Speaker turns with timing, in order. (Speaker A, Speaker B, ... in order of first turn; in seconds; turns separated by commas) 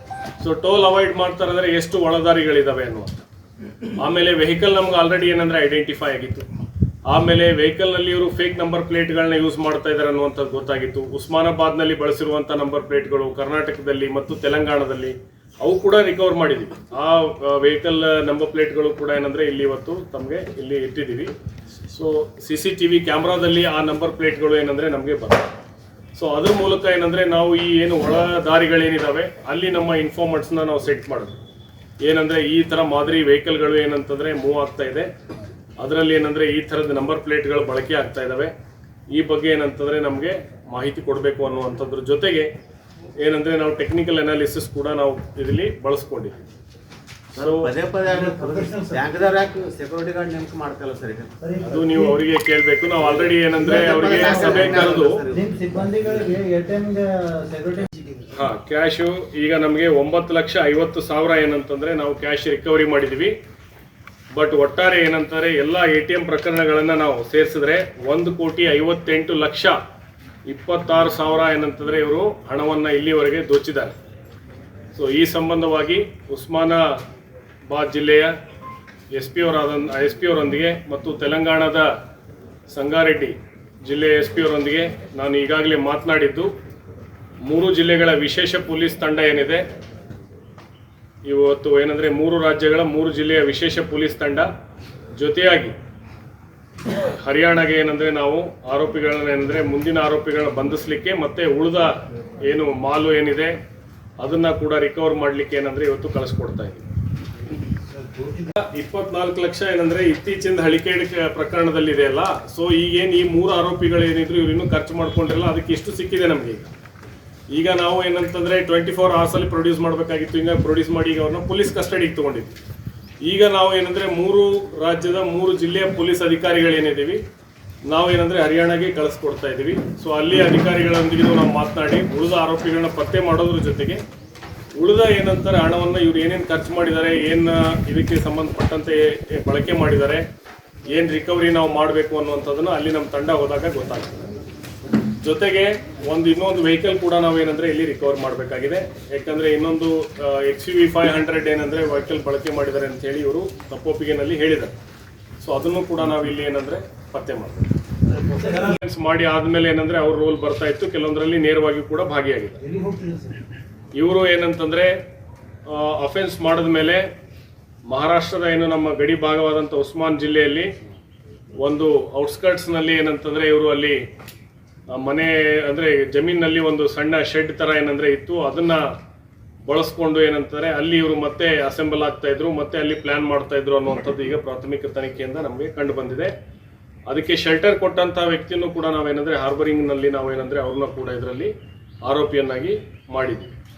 Speaker A: 0.4-3.2, Speaker A: 4.0-6.5, Speaker A: 7.1-21.3, Speaker A: 21.8-25.5, Speaker A: 26.1-31.4, Speaker A: 32.0-35.1, Speaker A: 35.8-38.5, Speaker A: 39.1-42.5, Speaker A: 43.2-46.4, Speaker A: 47.3-47.7, Speaker B: 47.3-51.4, Speaker C: 48.0-49.1, Speaker C: 51.4-52.2, Speaker A: 51.6-55.2, Speaker B: 53.5-56.1, Speaker C: 53.6-58.4, Speaker A: 58.3-63.3, Speaker A: 64.3-69.8, Speaker A: 70.5-74.0, Speaker A: 74.9-77.0, Speaker A: 77.7-78.3, Speaker A: 79.1-81.9, Speaker A: 82.7-86.5, Speaker A: 87.4-89.6, Speaker A: 91.2-94.5, Speaker A: 95.2-95.7, Speaker A: 96.9-103.5, Speaker A: 104.2-106.9, Speaker C: 107.9-108.5, Speaker A: 108.4-116.7, Speaker A: 117.5-122.5, Speaker A: 123.2-127.2, Speaker A: 127.8-134.0, Speaker A: 134.7-140.2, Speaker A: 140.9-144.3, Speaker A: 145.1-154.7, Speaker A: 155.4-162.6, Speaker C: 158.1-158.7, Speaker C: 162.6-163.5, Speaker A: 163.9-164.9, Speaker A: 165.7-167.1, Speaker A: 167.9-170.7, Speaker A: 171.6-174.0, Speaker A: 174.9-178.9, Speaker A: 179.7-186.3, Speaker A: 187.1-191.5, Speaker A: 192.0-193.5